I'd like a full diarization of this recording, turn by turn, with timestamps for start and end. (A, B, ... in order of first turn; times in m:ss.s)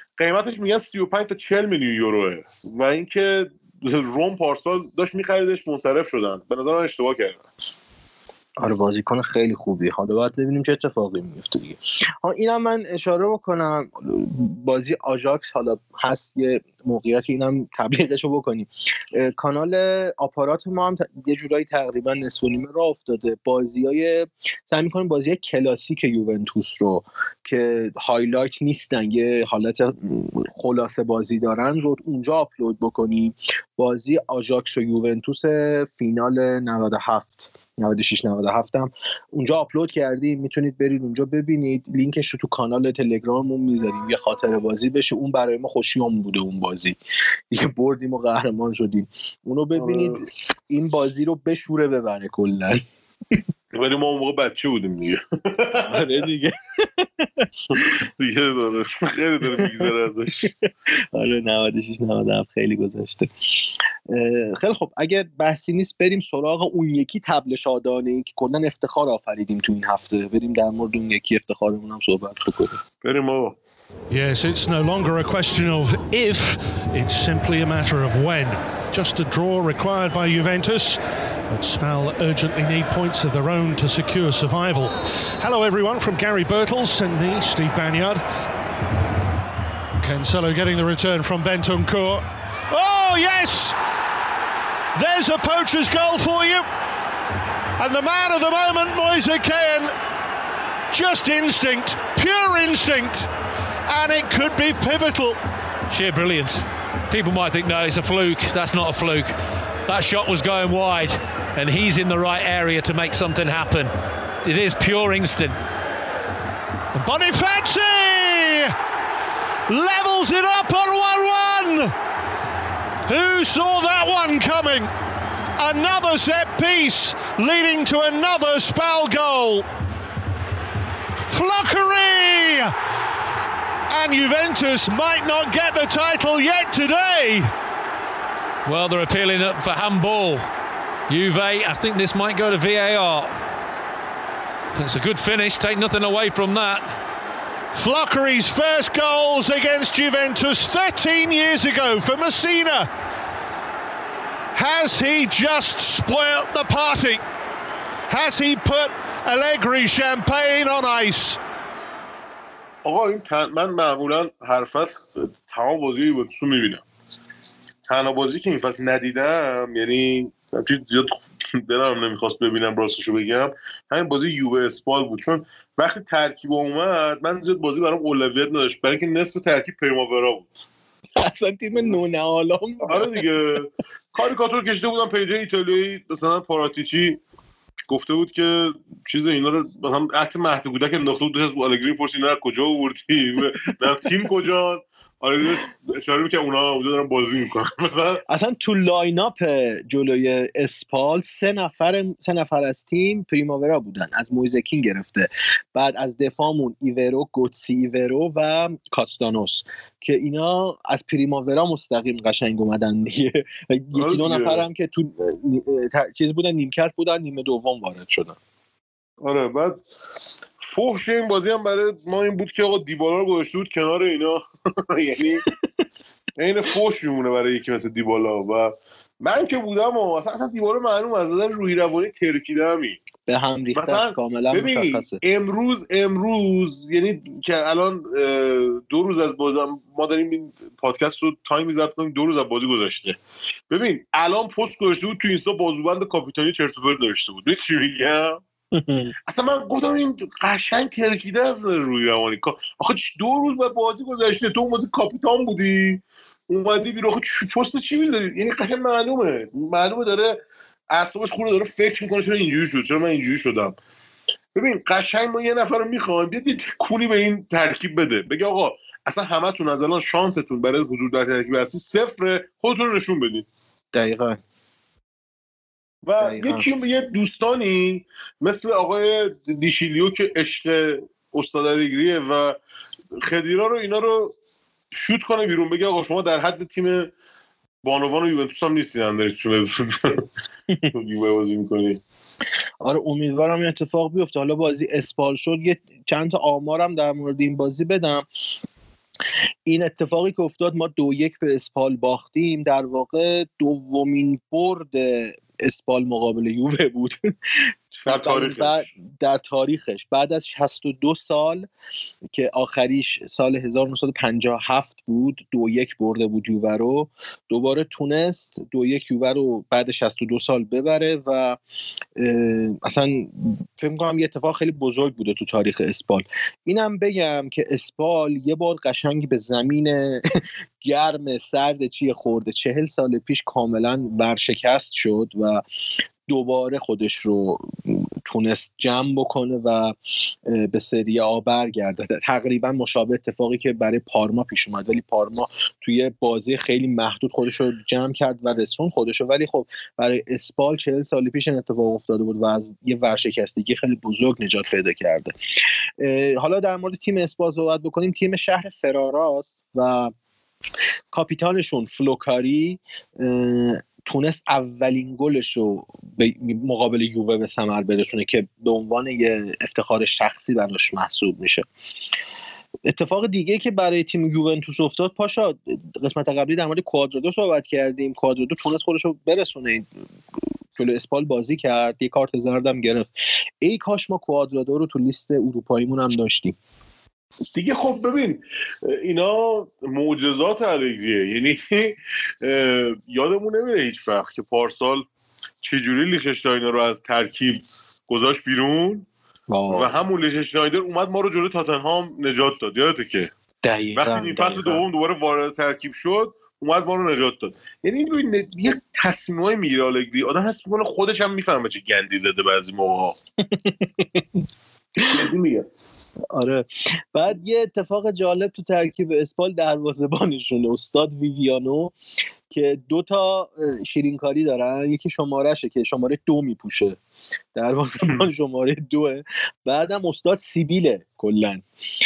0:00.2-0:07.4 A
0:08.6-0:47.0 B
0:47.5-0:52.8 B
0:49.8-0:50.2 A
0:53.7-0:56.2 A
0:55.9-0:57.8 B
0:58.2-1:00.4 A
0:59.6-0:59.9 B
1:01.1-1:12.8 B
1:13.0-1:13.6 A
1:14.1-1:28.2 C
1:30.0-1:33.8 C
1:35.0-1:36.7 C
1:37.8-1:39.9 C
1:40.9-1:43.3 C
1:43.9-1:45.4 C
1:45.9-1:49.4 D
1:49.9-1:53.9 D
1:54.4-1:55.6 D
1:56.9-1:58.7 C
1:59.7-2:01.9 C
2:03.1-2:04.9 C
2:05.6-2:09.6 C
2:11.3-2:12.7 C
2:13.9-2:17.5 C
2:18.6-2:20.5 D
2:21.1-2:23.4 D
2:24.7-2:26.9 D
2:27.7-2:32.9 C
2:34.5-2:37.2 C
2:38.1-2:41.4 C
2:42.8-2:46.8 A
2:47.9-3:00.5 A
3:01.2-3:03.2 B
3:02.8-3:07.2 A
3:07.9-3:18.2 A
3:18.3-3:38.4 B
3:33.9-3:34.7 A
3:39.2-3:39.8 A
3:40.6-3:45.4 A
3:46.4-3:53.0 A
3:53.3-3:55.2 B
3:53.8-4:03.2 A
4:03.7-4:08.4 A
4:08.7-4:09.1 B
4:09.3-4:20.4 A
4:20.9-4:23.8 A
4:24.6-4:33.5 A
4:33.9-4:34.4 B
4:36.0-4:42.6 A
4:36.2-4:36.7 B
4:43.2-4:44.4 A
4:44.9-4:47.1 A
4:47.8-4:50.2 A
4:50.9-4:52.0 A
4:52.8-4:58.2 B
4:59.7-5:07.2 B
5:07.9-5:11.7 B
5:08.0-5:08.9 A
5:12.3-5:21.6 B
5:22.2-5:30.2 B
5:30.8-5:35.6 B
5:36.3-5:40.0 B
5:40.5-5:55.3 B
5:56.0-6:00.1 B
6:01.1-6:11.7 B
6:12.9-6:19.9 B
6:20.8-6:23.1 B
6:23.6-6:26.6 B
6:27.6-6:35.0 A
6:35.6-6:39.1 A
6:39.5-6:39.9 B
6:39.7-6:43.3 A
6:43.6-6:44.8 B
6:44.0-6:53.2 A
6:53.4-6:54.3 B
6:55.1-6:55.7 A
6:56.3-7:02.0 B
7:02.5-7:07.0 B
7:07.6-7:11.6 B